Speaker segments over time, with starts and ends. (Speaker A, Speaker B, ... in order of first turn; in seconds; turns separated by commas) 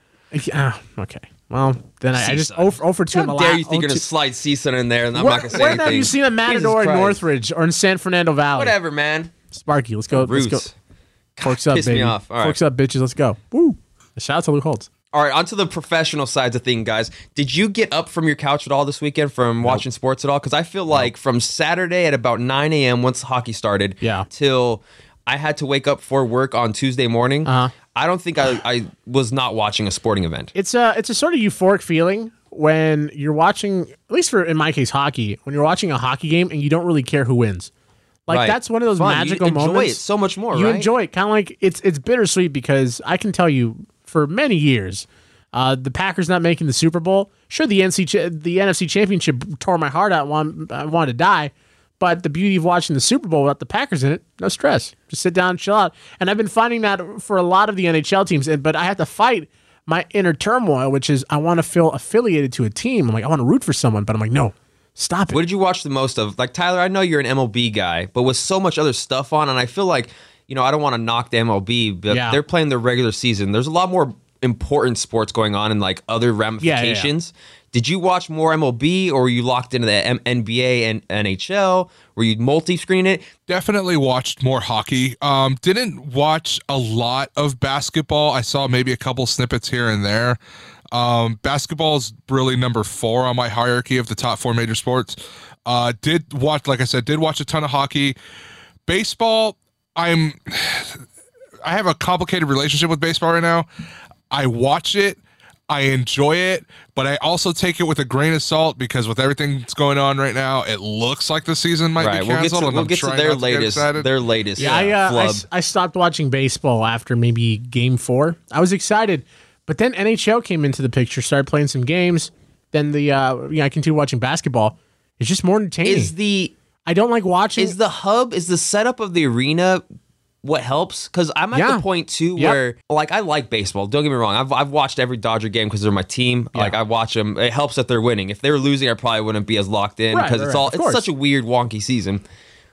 Speaker A: 0.3-4.0, Speaker B: 2.1-7.2, Speaker A: 5.1-8.7, Speaker B: 8.5-9.3, Speaker A: 9.5-10.6, Speaker B: 10.1-10.7, Speaker B: 11.3-12.6, Speaker A: 11.4-14.9, Speaker B: 15.1-30.5, Speaker A: 27.4-27.7, Speaker A: 30.5-37.7, Speaker A: 38.3-40.0, Speaker B: 38.3-40.9, Speaker A: 40.5-65.4, Speaker B: 65.3-83.3, Speaker A: 72.1-72.4, Speaker A: 76.6-77.1, Speaker C: 83.5-90.4, Speaker C: 90.9-98.2, Speaker C: 98.9-101.0, Speaker C: 101.6-103.7, Speaker C: 104.3-114.9, Speaker B: 112.0-115.4, Speaker A: 114.6-126.1, Speaker B: 125.8-126.5, Speaker A: 126.8-127.8, Speaker B: 127.6-129.8, Speaker B: 130.4-142.2, Speaker A: 131.5-131.8, Speaker A: 140.1-141.0